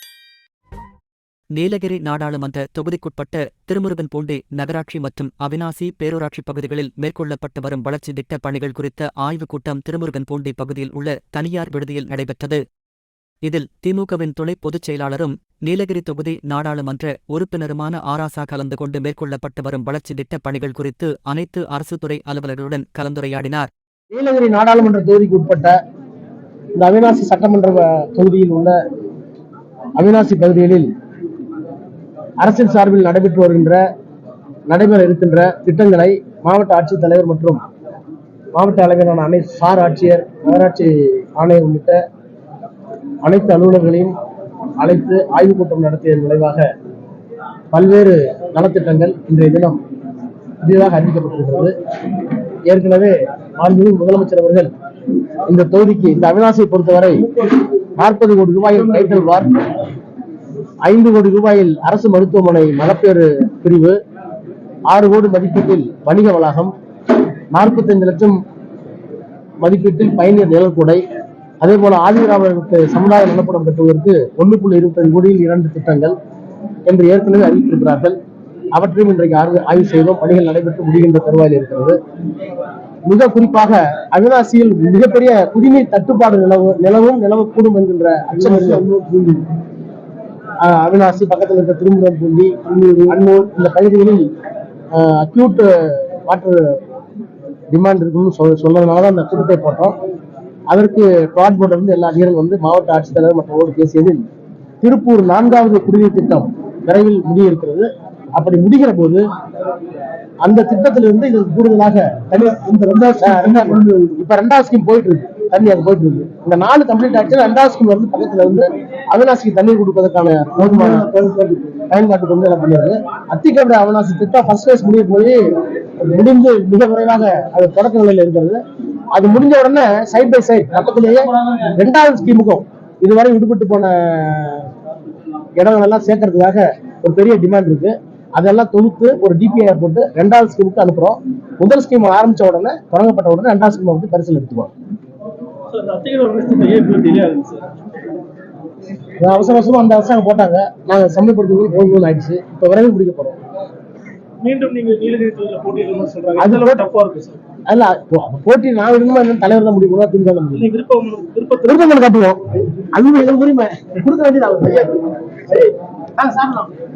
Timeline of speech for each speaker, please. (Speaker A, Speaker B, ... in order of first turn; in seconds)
Speaker A: 1.5-12.6, 13.4-23.7
Speaker B: 24.1-25.7, 26.8-28.8, 29.9-30.9, 32.4-33.8, 34.7-37.6, 38.5-42.0, 43.2-44.1, 44.8-46.7, 47.7-49.8, 50.6-51.7, 52.7-54.7, 55.5-57.3, 58.0-59.6, 60.8-64.0, 64.9-66.7, 67.5-68.4, 69.6-71.0, 71.6-76.1, 76.9-78.2, 78.7-82.0, 83.0-88.9, 90.6-92.5, 93.1-94.2, 94.9-96.8, 97.7-99.9, 100.7-104.2, 104.8-109.2, 110.4-112.6, 113.2-121.1, 121.9-125.4, 126.0-128.6, 129.1-134.7, 135.6-144.7, 149.2-153.4, 156.4-156.8, 157.7-160.7, 161.6-166.7
Speaker C: 57.2-57.7, 58.7-59.3, 88.3-89.5, 92.7-93.2, 112.5-114.1, 120.6-121.8, 145.7-147.7, 154.4-157.4, 160.5-161.9